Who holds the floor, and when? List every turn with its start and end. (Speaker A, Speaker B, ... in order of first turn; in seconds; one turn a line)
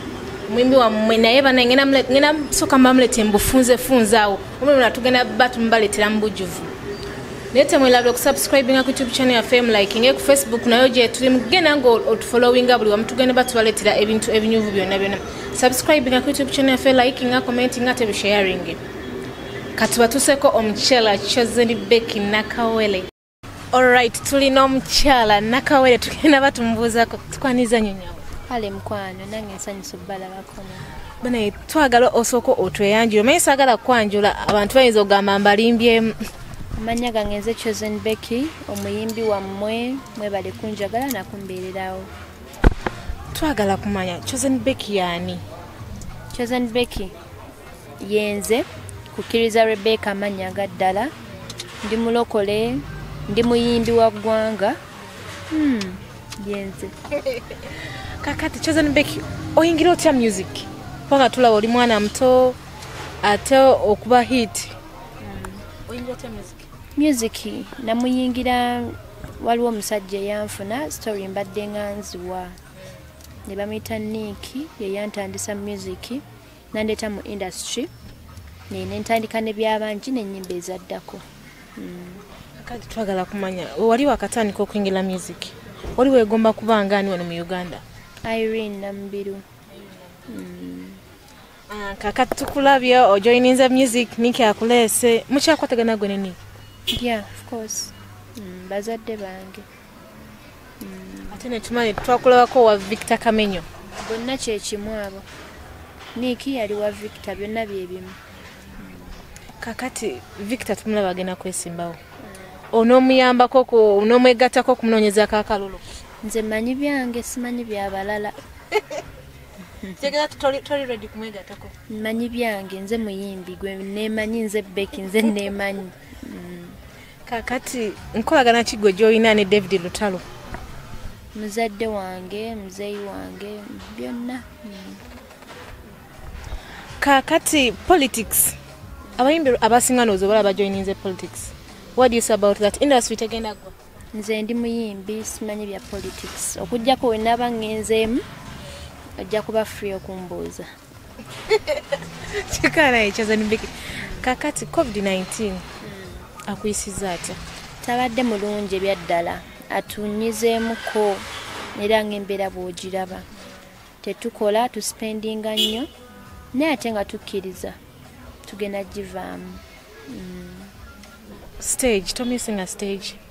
Speaker A: 0.5-6.7
Speaker A: 7.5-18.8
Speaker A: 19.8-23.1
Speaker A: 23.7-28.3
Speaker B: 28.5-30.9
Speaker A: 31.2-36.1
Speaker B: 36.7-42.1
Speaker A: 43.3-45.4
Speaker B: 46.3-47.1
Speaker B: 48.0-51.1
Speaker B: 51.8-54.8
Speaker B: 55.5-56.9
Speaker A: 57.1-57.6
Speaker A: 58.2-62.6
Speaker A: 63.2-64.7
Speaker B: 65.2-65.6
Speaker A: 65.8-66.7
Speaker B: 67.0-72.6
Speaker B: 73.5-77.9
Speaker B: 78.7-81.2
Speaker B: 81.7-82.2
Speaker A: 82.6-87.8
Speaker B: 88.2-89.4
Speaker B: 90.3-91.0
Speaker A: 91.7-96.4
Speaker B: 96.9-99.7
Speaker B: 100.8-101.4
Speaker A: 101.3-103.7
Speaker B: 104.0-105.2
Speaker B: 106.1-108.2
Speaker B: 108.8-109.1
Speaker A: 109.6-112.0
Speaker A: 112.7-115.8
Speaker B: 116.2-118.4
Speaker A: 120.0-121.7
Speaker B: 121.9-126.8
Speaker A: 127.2-130.2
Speaker B: 131.3-135.0
Speaker A: 137.0-138.6
Speaker A: 139.2-143.7
Speaker B: 144.1-148.2
Speaker B: 149.2-150.7
Speaker A: 151.5-155.6
Speaker B: 155.8-156.2
Speaker A: 156.4-157.4
Speaker B: 157.8-163.2
Speaker B: 164.0-165.9
Speaker B: 166.5-167.8
Speaker B: 168.4-170.7
Speaker A: 171.6-173.2